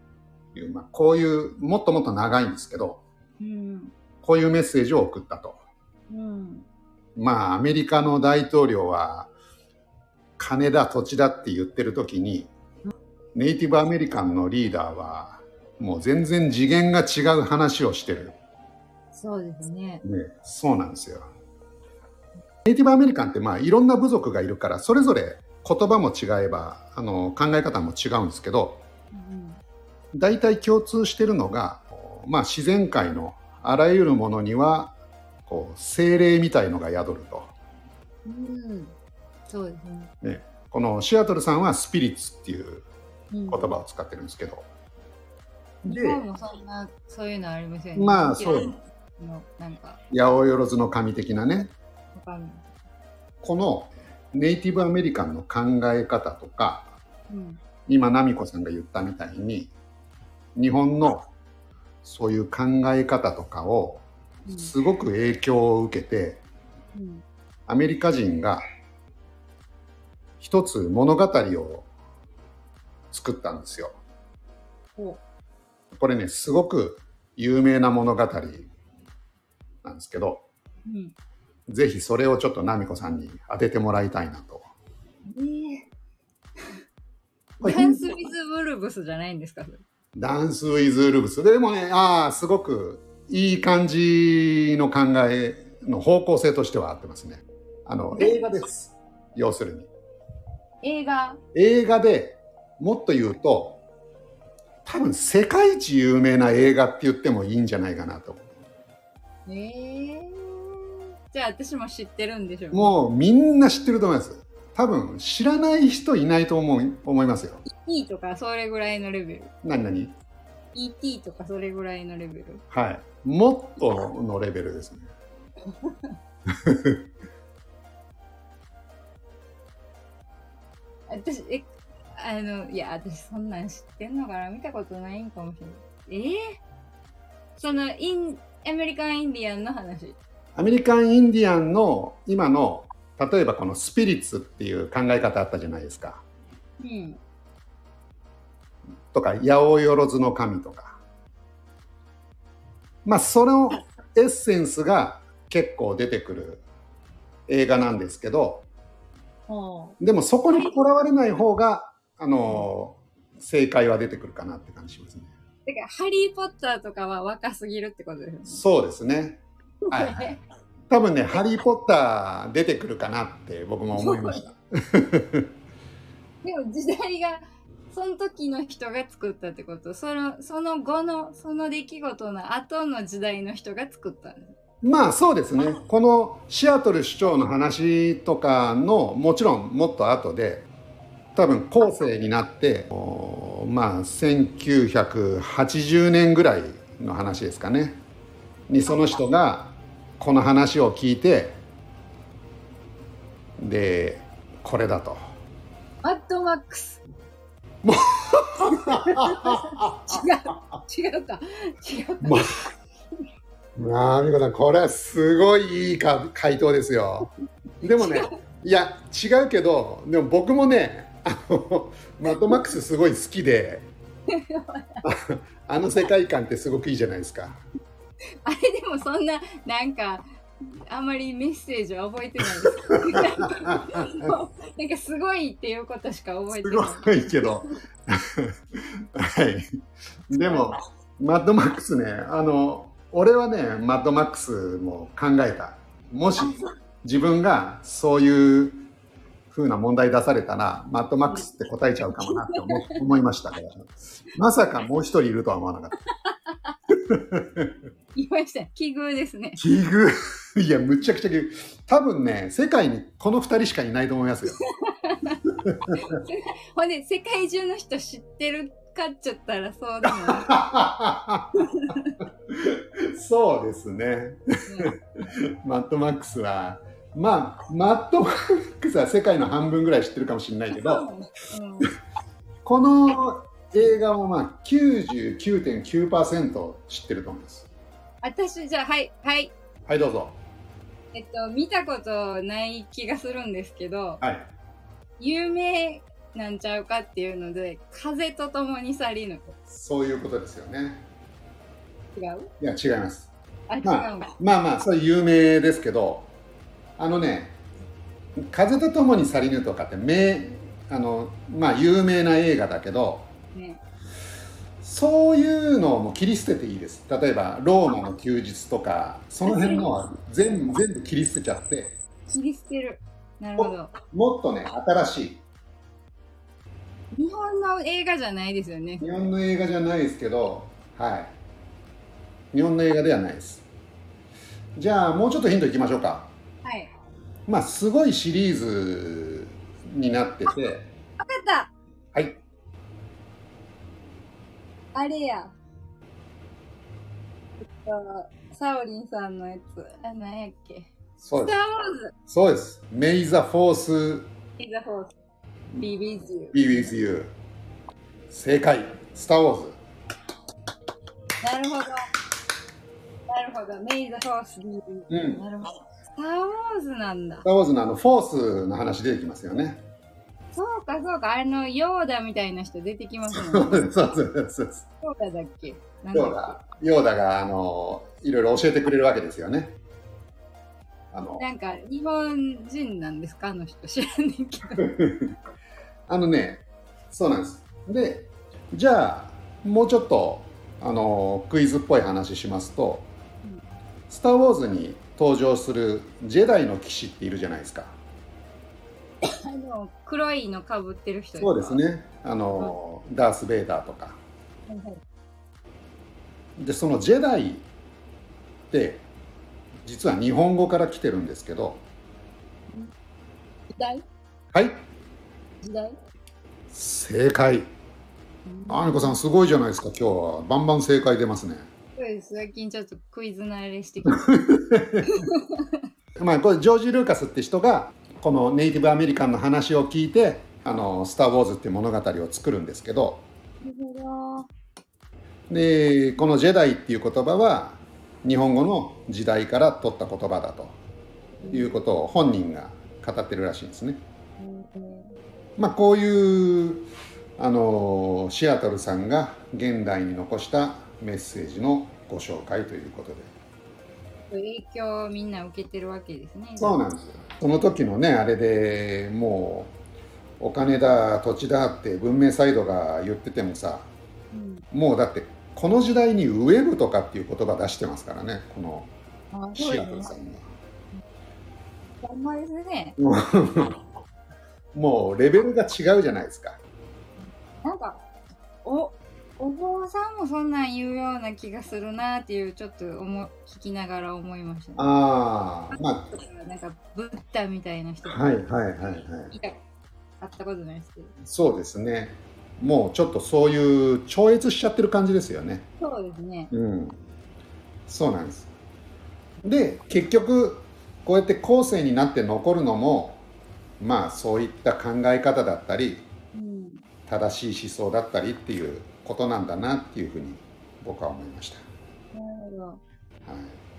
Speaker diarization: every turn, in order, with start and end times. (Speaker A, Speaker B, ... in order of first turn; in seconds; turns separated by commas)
Speaker A: 0.5-3.0, Speaker B: 3.4-3.9, Speaker A: 4.2-5.6, Speaker B: 6.1-6.7, Speaker A: 7.2-9.3, Speaker A: 10.4-12.5, Speaker A: 13.3-18.4, Speaker B: 19.1-20.0, Speaker A: 20.0-21.3, Speaker A: 22.6-28.8, Speaker B: 29.1-29.6, Speaker A: 30.1-34.9, Speaker A: 35.5-37.5, Speaker B: 38.3-38.9, Speaker B: 39.5-40.1, Speaker A: 40.2-42.9, Speaker B: 43.3-43.7, Speaker A: 43.5-44.6, Speaker A: 45.9-46.2, Speaker B: 45.9-50.0, Speaker A: 48.0-48.8, Speaker A: 50.1-51.7, Speaker B: 52.1-52.7, Speaker A: 53.4-56.9, Speaker B: 57.3-57.6, Speaker A: 57.9-59.7, Speaker A: 60.6-61.2, Speaker A: 62.0-66.4, Speaker B: 64.5-64.7, Speaker B: 67.0-67.2, Speaker A: 67.7-68.6, Speaker A: 70.4-71.9, Speaker A: 73.1-74.0, Speaker B: 75.0-75.2, Speaker A: 75.9-78.7, Speaker A: 79.8-80.5, Speaker B: 80.9-81.1, Speaker A: 81.7-84.6, Speaker B: 85.3-85.9, Speaker A: 87.6-88.0, Speaker B: 87.6-89.8, Speaker A: 90.2-99.9, Speaker B: 100.8-101.4, Speaker A: 101.5-103.8, Speaker A: 104.9-108.4, Speaker B: 109.5-113.0, Speaker A: 112.7-117.6, Speaker B: 117.7-119.5, Speaker A: 119.6-120.2, Speaker B: 120.7-122.6, Speaker A: 122.7-125.1, Speaker B: 125.8-126.1, Speaker A: 126.7-127.0, Speaker B: 131.1-136.6, Speaker B: 137.6-140.2, Speaker A: 140.6-146.2, Speaker B: 146.8-147.2, Speaker A: 149.1-151.0, Speaker A: 153.1-156.7, Speaker A: 157.5-158.7, Speaker B: 159.5-160.0, Speaker A: 160.0-165.3, Speaker B: 160.5-160.8, Speaker B: 165.7-168.6, Speaker A: 168.5-170.3, Speaker B: 169.9-170.4, Speaker A: 170.9-175.5, Speaker B: 174.0-174.4, Speaker B: 176.4-184.5, Speaker A: 184.8-190.7, Speaker A: 191.3-198.0, Speaker A: 198.7-201.6, Speaker A: 203.6-205.2, Speaker B: 206.0-207.0, Speaker A: 207.8-210.2, Speaker B: 208.8-212.5, Speaker A: 212.2-212.7, Speaker A: 213.8-217.3, Speaker A: 217.8-223.9, Speaker B: 217.9-218.3, Speaker B: 224.3-225.0, Speaker A: 225.0-227.6, Speaker B: 228.4-237.6, Speaker A: 233.0-234.3, Speaker A: 236.5-239.7, Speaker A: 240.3-248.8, Speaker B: 240.3-240.8, Speaker A: 249.5-255.9, Speaker B: 252.2-252.9, Speaker A: 256.9-257.7, Speaker B: 258.1-259.6, Speaker A: 259.6-264.6, Speaker B: 264.6-265.4, Speaker A: 265.7-266.0, Speaker B: 266.0-270.7, Speaker A: 270.3-271.5, Speaker B: 271.6-272.2, Speaker A: 272.5-274.9, Speaker A: 275.6-281.1, Speaker B: 280.7-281.9, Speaker A: 282.6-287.7, Speaker B: 288.2-289.5, Speaker A: 289.9-290.4, Speaker B: 291.1-294.2, Speaker A: 294.2-294.5, Speaker B: 295.2-299.5, Speaker A: 299.7-301.0, Speaker B: 302.1-302.5, Speaker A: 302.6-303.3, Speaker B: 303.7-304.3, Speaker A: 303.8-306.3, Speaker A: 307.0-307.6, Speaker A: 308.5-313.3, Speaker B: 313.5-313.8, Speaker A: 314.8-322.0, Speaker B: 319.4-319.9, Speaker B: 322.3-323.9, Speaker A: 323.6-325.4, Speaker B: 327.1-329.1, Speaker A: 329.0-331.4, Speaker A: 332.5-333.7, Speaker A: 334.8-336.3, Speaker B: 336.6-336.9, Speaker A: 337.5-340.9, Speaker B: 341.2-341.7, Speaker A: 342.1-342.4, Speaker B: 344.9-345.6, Speaker B: 347.8-352.1, Speaker A: 351.2-351.6, Speaker A: 352.3-354.3, Speaker B: 354.6-355.1, Speaker B: 355.8-356.9, Speaker A: 356.5-357.3, Speaker A: 358.3-359.8, Speaker B: 361.4-362.1, Speaker B: 363.3-367.5, Speaker A: 365.1-365.4, Speaker A: 367.4-369.8, Speaker B: 370.5-373.9, Speaker A: 373.3-374.9, Speaker B: 375.0-376.6, Speaker A: 376.1-379.8, Speaker A: 381.1-381.4, Speaker B: 381.4-384.9, Speaker A: 384.8-385.3, Speaker A: 386.1-393.1, Speaker A: 394.1-398.0, Speaker B: 399.2-401.8, Speaker A: 401.4-404.2, Speaker B: 404.7-405.0, Speaker A: 406.6-407.7, Speaker A: 408.7-409.1, Speaker A: 409.9-411.9, Speaker B: 413.8-414.0, Speaker A: 414.5-414.9, Speaker B: 415.6-416.0, Speaker A: 416.7-417.7, Speaker B: 418.4-419.2, Speaker A: 418.7-421.7, Speaker B: 422.0-424.3, Speaker A: 424.1-425.1, Speaker B: 425.1-425.8, Speaker A: 426.2-433.3, Speaker B: 433.6-434.5, Speaker A: 435.5-440.8, Speaker B: 441.4-441.8, Speaker A: 441.5-444.0, Speaker B: 444.4-445.1, Speaker A: 445.6-453.3, Speaker B: 454.3-456.8, Speaker A: 456.6-459.8, Speaker A: 460.4-463.9, Speaker B: 464.3-464.6, Speaker A: 464.7-468.9, Speaker B: 469.3-470.1, Speaker A: 469.6-470.4, Speaker B: 472.0-473.0, Speaker A: 473.0-473.8, Speaker A: 474.7-476.6, Speaker B: 477.6-478.0, Speaker B: 478.6-485.0, Speaker A: 484.8-486.1, Speaker B: 485.7-488.2, Speaker A: 488.0-489.3, Speaker B: 489.3-489.6, Speaker B: 490.2-491.1, Speaker A: 491.2-495.7, Speaker B: 495.8-496.5, Speaker A: 496.5-497.0, Speaker A: 497.9-498.5, Speaker A: 499.4-503.2, Speaker A: 503.8-506.1, Speaker B: 506.3-506.8, Speaker A: 507.1-511.7, Speaker B: 512.1-512.8, Speaker A: 513.2-513.6